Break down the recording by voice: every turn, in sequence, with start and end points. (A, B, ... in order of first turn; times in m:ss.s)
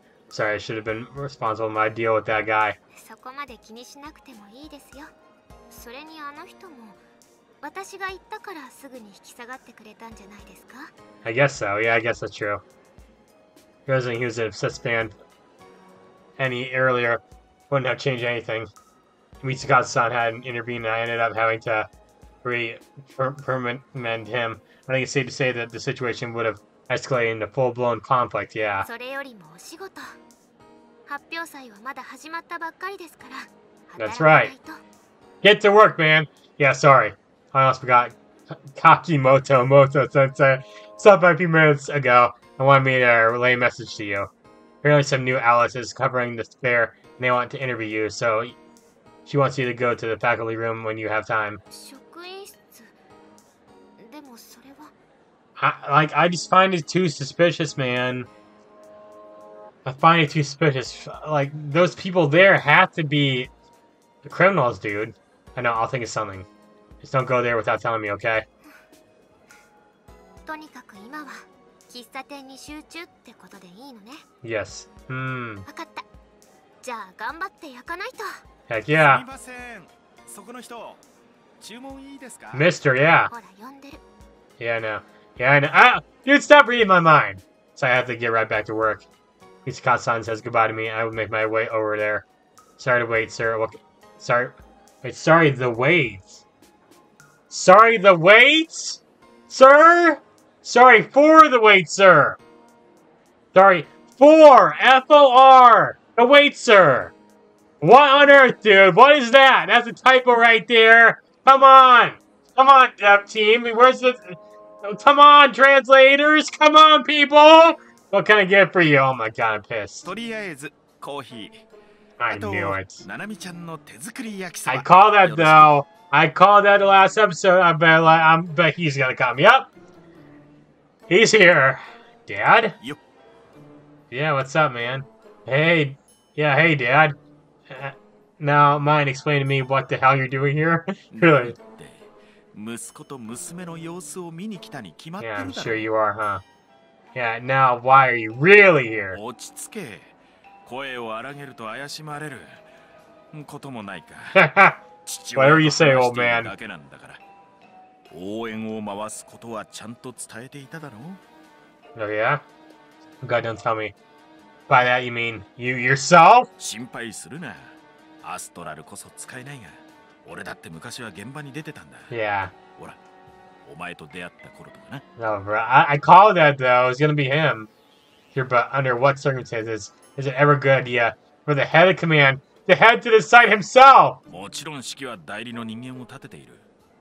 0:00.3-0:02.8 A
0:02.9-0:05.1 B
0:05.7-0:07.0 B
0:07.6-0:10.9 B
0:11.2-0:12.6 A
0:13.8-0:15.1 A
0:16.4-0:18.7 A
0:19.4-0:21.9 A
0:22.4-0:28.9 A
0:28.8-0:30.2 B
0:31.1-0:34.8 B
0:34.0-0:34.5 A
0:35.4-0:44.3 A
0:44.8-0:48.6 A
0:49.2-0:51.6 A
0:51.7-0:52.9 B
0:54.0-0:54.9 B
0:55.6-0:58.3 A
0:59.8-1:03.5 A
1:04.2-1:06.5 A
1:07.0-1:08.4 A
1:10.4-1:14.2 B
1:14.4-1:15.6 A
1:15.7-1:16.0 B
1:16.8-1:18.4 B
1:18.7-1:19.2 A
1:18.9-1:21.0 C
1:21.6-1:22.6 C
1:22.5-1:23.3 A
1:23.3-1:24.0 B
1:24.6-1:29.1 A
1:29.6-1:32.2 A
1:32.8-1:36.4 A
1:37.5-1:42.4 A
1:43.5-1:47.1 A
1:47.8-2:00.1 A
2:00.0-2:01.6 C
2:02.2-2:03.0 A
2:02.3-2:05.7 C
2:04.6-2:09.7 A
2:11.1-2:12.8 A
2:14.1-2:17.2 A
2:17.7-2:21.6 A
2:21.1-2:25.8 C
2:25.2-2:26.4 A
2:27.1-2:29.2 A
2:29.1-2:30.1 C
2:30.6-2:32.6 C
2:33.3-2:34.4 C
2:34.3-2:34.8 A
2:35.0-2:37.2 C
2:35.3-2:36.5 A
2:38.1-2:41.2 C
2:42.0-2:42.4 A
2:43.2-2:43.9 A
2:44.7-2:46.5 A
2:46.6-2:52.1 C
2:52.1-2:52.5 A
2:53.6-2:55.0 C
2:55.2-2:57.7 A
2:58.3-3:04.2 A
3:04.3-3:06.6 C